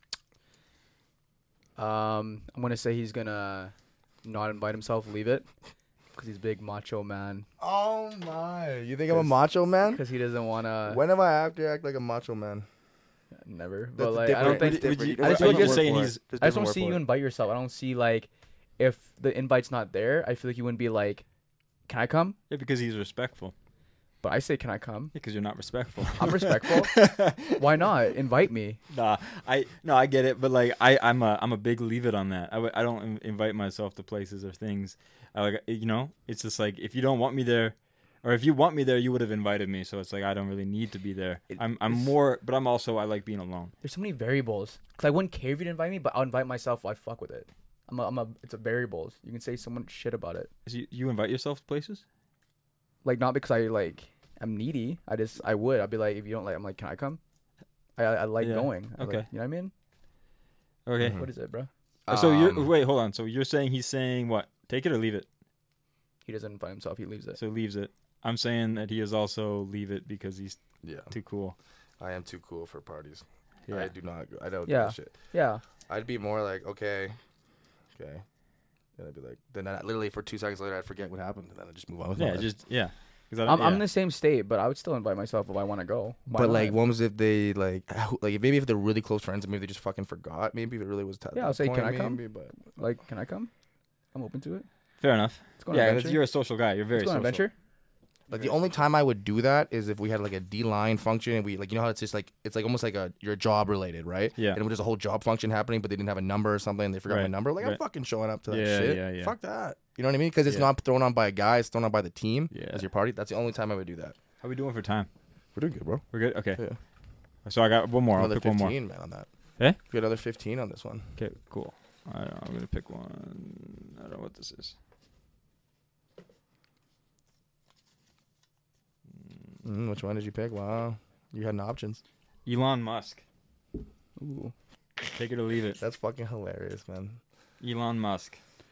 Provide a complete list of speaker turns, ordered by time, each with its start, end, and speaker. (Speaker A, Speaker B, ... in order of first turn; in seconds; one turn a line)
Speaker A: 1.8-3.7
Speaker A: 4.2-5.5
Speaker A: 6.1-7.5
Speaker B: 7.6-10.0
Speaker A: 9.8-11.0
Speaker B: 10.9-12.7
Speaker A: 13.4-21.2
Speaker B: 14.0-17.0
Speaker C: 14.4-16.2
Speaker A: 21.9-22.4
Speaker C: 22.5-23.5
Speaker A: 24.2-25.1
Speaker C: 25.1-27.6
Speaker A: 26.1-27.0
Speaker A: 27.5-28.8
Speaker C: 28.9-43.7
Speaker A: 41.5-42.1
Speaker A: 43.8-50.5
Speaker C: 50.6-52.0
Speaker A: 53.0-57.2
Speaker A: 58.0-59.7
Speaker C: 58.4-59.3
Speaker C: 60.9-61.2
Speaker A: 61.0-61.7
Speaker B: 62.1-62.7
Speaker C: 62.1-65.2
Speaker A: 66.2-67.4
Speaker C: 67.4-70.6
Speaker B: 70.8-71.1
Speaker C: 71.1-71.5
Speaker B: 72.0-75.1
Speaker C: 73.7-73.9
Speaker A: 74.7-75.6
Speaker B: 75.9-77.2
Speaker B: 77.9-78.2
Speaker B: 79.0-82.5
Speaker C: 82.2-83.9
Speaker A: 83.5-86.8
Speaker B: 86.3-92.6
Speaker A: 91.3-93.5
Speaker A: 94.1-94.7
Speaker C: 95.0-97.4
Speaker A: 95.6-96.2
Speaker A: 96.9-97.5
Speaker B: 98.3-114.2
Speaker C: 107.1-107.8
Speaker C: 108.5-109.3
Speaker C: 112.5-112.8
Speaker C: 114.4-115.1
Speaker B: 115.5-116.0
Speaker C: 116.1-116.6
Speaker C: 117.4-118.7
Speaker B: 118.1-119.3
Speaker B: 119.8-121.1
Speaker C: 121.2-124.7
Speaker B: 129.6-132.0
Speaker C: 132.4-133.2
Speaker A: 134.2-134.5
Speaker C: 135.1-135.8
Speaker B: 135.8-137.2
Speaker C: 137.6-138.4